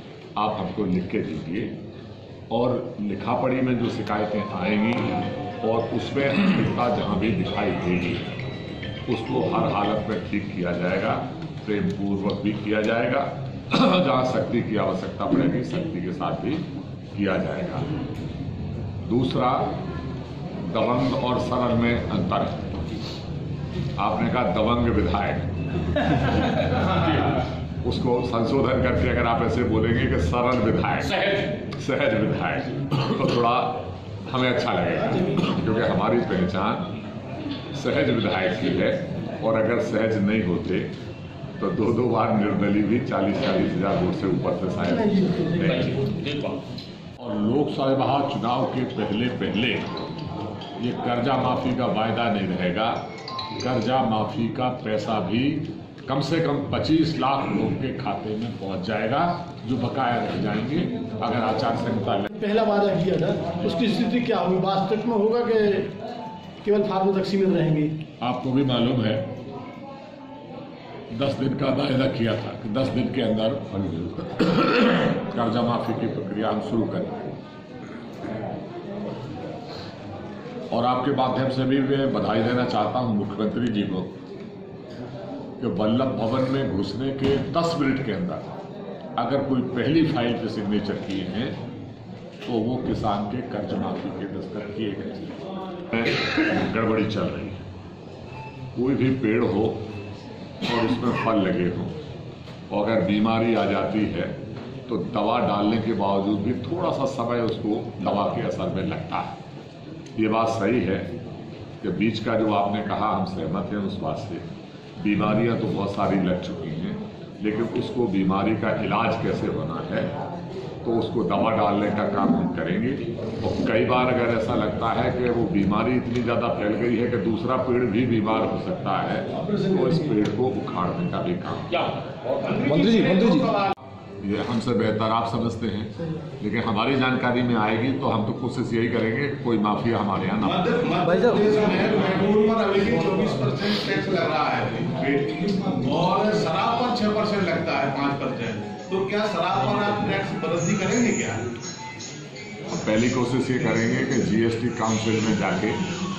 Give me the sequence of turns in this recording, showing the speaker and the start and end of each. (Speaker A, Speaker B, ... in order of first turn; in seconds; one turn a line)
Speaker A: 0.3-1.8
Speaker A: 2.5-8.3
Speaker A: 9.1-17.9
Speaker A: 19.0-19.7
Speaker A: 20.6-22.6
Speaker A: 24.0-25.5
Speaker A: 26.1-36.9
Speaker A: 37.7-40.9
Speaker A: 41.6-46.5
Speaker B: 45.0-45.7
Speaker A: 47.2-50.0
Speaker A: 50.8-62.3
Speaker B: 62.3-66.0
Speaker B: 66.6-68.0
Speaker A: 68.2-69.3
Speaker A: 71.1-77.2
Speaker A: 80.7-84.2
Speaker A: 85.6-88.5
Speaker A: 89.2-91.6
Speaker A: 92.4-97.6
Speaker A: 98.7-99.9
Speaker A: 100.6-102.0
Speaker A: 102.7-109.4
Speaker A: 110.2-111.1
Speaker A: 111.8-120.2
Speaker A: 120.8-132.3
Speaker B: 129.4-129.9
Speaker C: 132.4-133.7
Speaker A: 134.2-140.7
Speaker C: 140.4-151.5
Speaker A: 152.7-155.8